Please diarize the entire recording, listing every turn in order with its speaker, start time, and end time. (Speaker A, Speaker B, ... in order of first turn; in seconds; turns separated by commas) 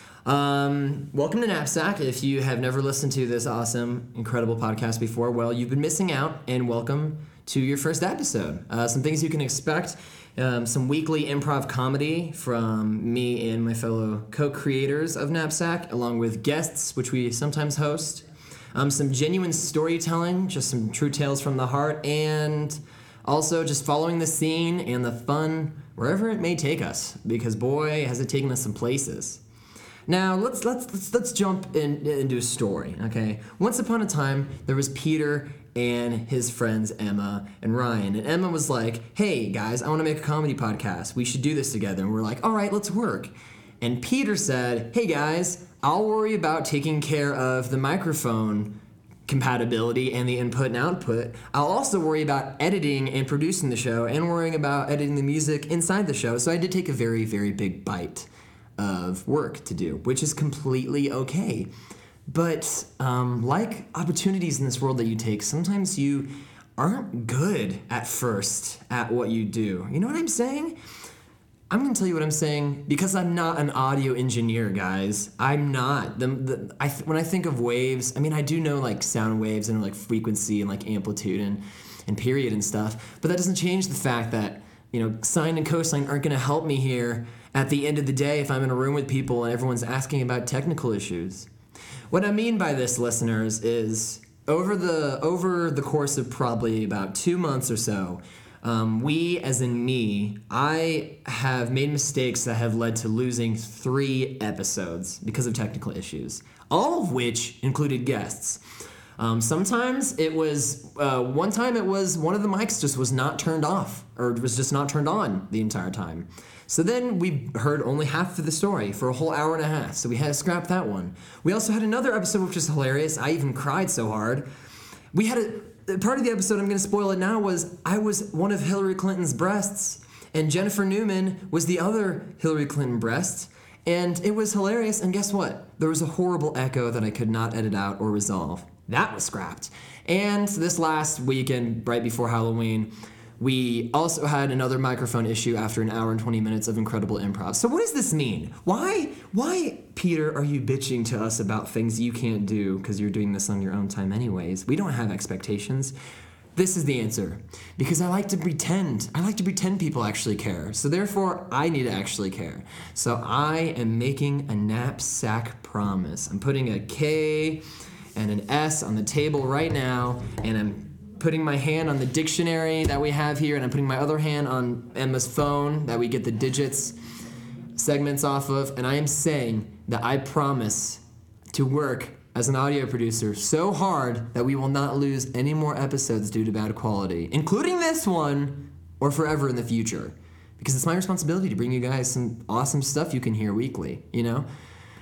Speaker A: 0.2-29.4, Speaker A: 30.1-61.7, Speaker A: 62.3-70.8, Speaker A: 71.7-91.5, Speaker A: 92.1-108.6, Speaker A: 109.2-124.5, Speaker A: 125.1-155.9, Speaker A: 156.5-177.0, Speaker A: 177.7-194.5